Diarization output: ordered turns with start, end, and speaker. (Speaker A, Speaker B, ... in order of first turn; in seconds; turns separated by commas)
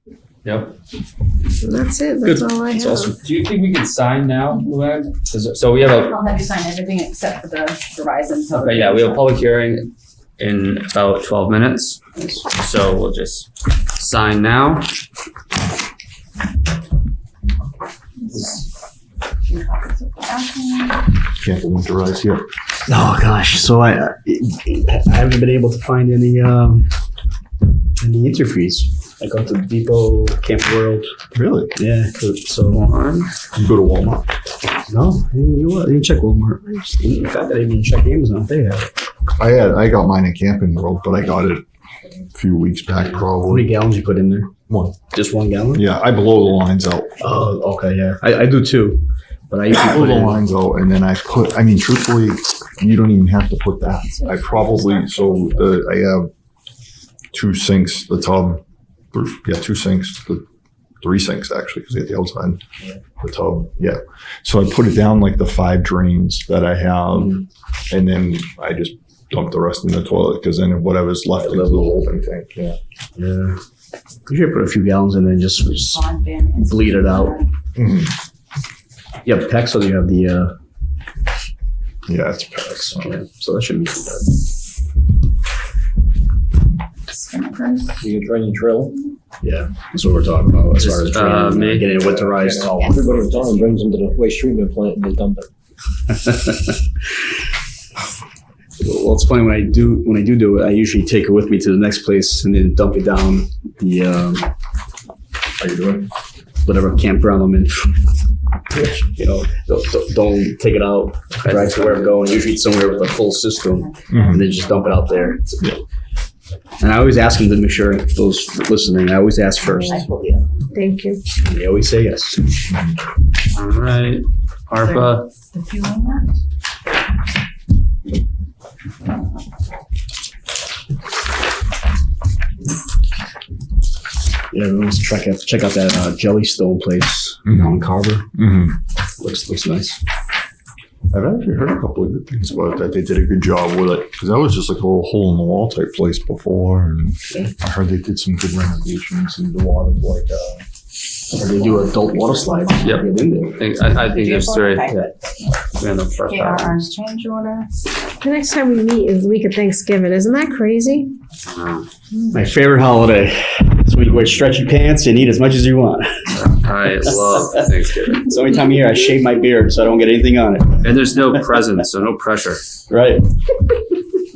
Speaker A: 0.4-0.8, Speaker B: 1.6-3.1, Speaker C: 2.2-3.1, Speaker A: 3.2-6.2, Speaker D: 5.8-9.3, Speaker A: 8.5-14.9, Speaker D: 18.2-18.6, Speaker D: 19.4-21.0, Speaker E: 21.4-22.4, Speaker C: 22.9-26.9, Speaker C: 28.0-31.1, Speaker E: 31.3-31.7, Speaker C: 31.7-32.9, Speaker A: 32.7-33.3, Speaker E: 33.5-34.3, Speaker C: 34.9-38.9, Speaker E: 39.4-41.6, Speaker E: 42.3-43.7, Speaker C: 43.3-44.5, Speaker E: 44.7-45.0, Speaker C: 45.1-45.9, Speaker E: 45.7-47.1, Speaker C: 47.2-50.4, Speaker E: 49.7-56.3, Speaker D: 54.0-55.8, Speaker E: 57.3-60.4, Speaker E: 61.0-62.6, Speaker E: 63.2-67.4, Speaker C: 67.1-67.4, Speaker E: 67.9-72.8, Speaker C: 71.4-72.0, Speaker C: 73.2-73.6, Speaker C: 74.2-76.0, Speaker D: 75.7-77.5, Speaker C: 76.6-77.4, Speaker E: 77.7-78.2, Speaker C: 79.2-80.6, Speaker E: 82.1-83.1, Speaker C: 82.7-84.3, Speaker D: 87.1-88.0, Speaker F: 88.0-88.9, Speaker C: 89.4-93.2, Speaker A: 90.8-91.9, Speaker F: 91.9-95.5, Speaker D: 92.8-93.7, Speaker C: 96.1-96.8, Speaker C: 98.8-104.5, Speaker E: 105.6-106.1, Speaker C: 106.6-108.0, Speaker C: 108.9-115.6, Speaker D: 113.6-115.4, Speaker E: 114.1-114.5, Speaker C: 116.8-120.1, Speaker D: 119.8-120.5, Speaker B: 120.7-121.2, Speaker C: 121.4-122.5, Speaker E: 122.7-123.0, Speaker A: 123.5-125.2, Speaker D: 124.8-126.3, Speaker C: 134.5-138.3, Speaker E: 137.4-138.8, Speaker C: 139.2-140.0, Speaker E: 141.1-150.6, Speaker C: 151.3-153.6, Speaker D: 151.6-153.1, Speaker A: 152.8-155.0, Speaker D: 153.9-155.1, Speaker A: 155.7-156.9, Speaker D: 156.2-157.7, Speaker B: 158.2-161.1, Speaker A: 161.4-161.9, Speaker C: 162.3-166.5, Speaker A: 166.3-168.3, Speaker C: 167.0-167.6, Speaker C: 168.1-171.2, Speaker A: 170.8-172.6, Speaker C: 172.9-173.2